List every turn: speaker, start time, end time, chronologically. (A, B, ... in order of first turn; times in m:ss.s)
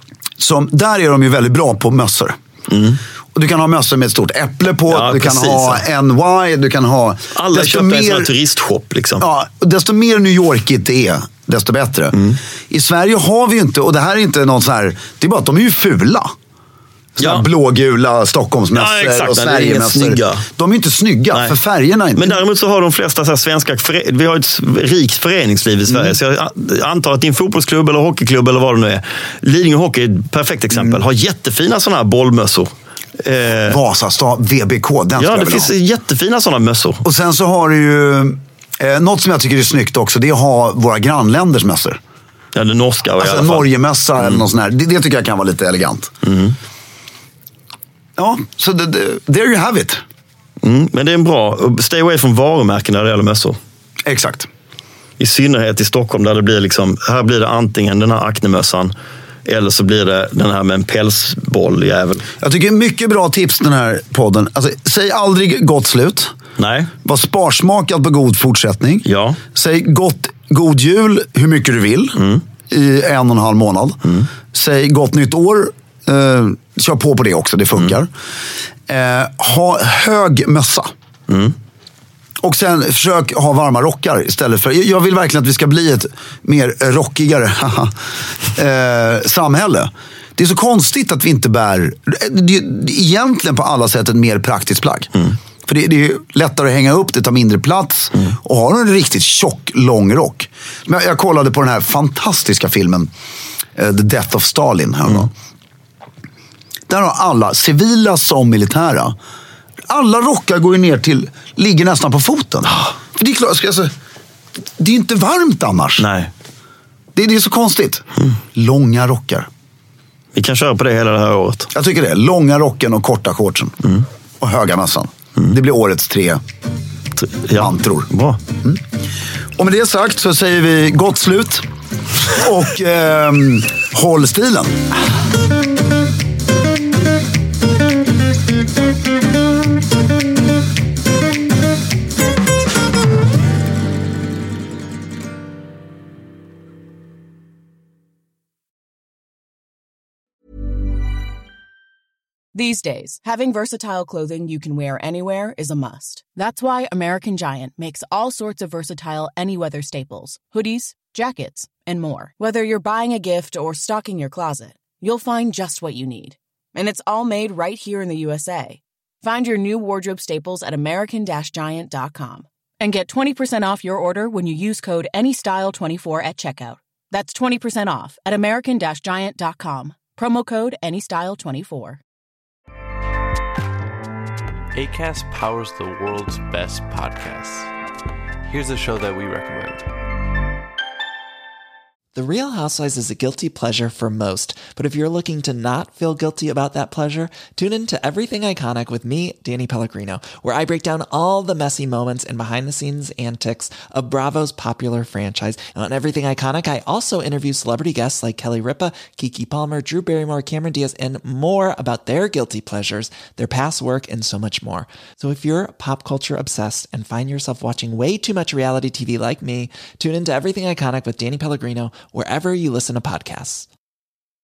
0:00.4-0:02.4 A
0:02.7-0:03.0 B
0:03.3-0:08.3 A
0:04.9-0:05.8 B
0:07.3-0:09.2 B
0:09.2-0:12.2 A
0:12.7-0:16.3 A
0:17.2-0:22.4 A
0:17.2-0:17.5 B
0:18.7-0:20.4 B
0:22.1-0:33.8 B
0:25.9-0:26.1 A
0:33.6-0:35.7 A
0:35.2-0:37.0 B
0:37.0-0:42.0 A
0:42.5-0:44.4 B
0:43.2-0:46.1 A
0:46.2-0:46.6 B
0:48.2-0:50.0 A
0:50.6-0:53.6 B
0:54.0-0:54.5 A
0:55.2-0:58.9 B
0:59.4-1:02.2 B
1:02.4-1:06.3 A
1:06.6-1:06.9 B
1:07.0-1:14.0 A
1:09.0-1:09.4 B
1:12.2-1:12.4 B
1:14.5-1:18.1 A
1:18.9-1:20.9 A
1:21.3-1:21.5 B
1:22.4-1:27.9 A
1:28.5-1:35.1 A
1:35.6-1:43.1 A
1:43.8-1:45.3 A
1:46.9-1:49.1 A
1:49.9-1:53.9 A
1:54.8-1:56.0 A
1:56.0-1:56.3 B
1:57.1-1:59.5 A
2:00.3-2:01.7 B
2:01.7-2:03.8 A
2:04.4-2:06.4 A
2:07.2-2:08.4 B
2:07.5-2:08.1 A
2:09.6-2:11.6 A
2:12.3-2:14.8 A
2:32.5-3:02.0 C
3:04.7-3:07.7 D
3:08.5-3:09.9 D
3:12.1-3:43.7 E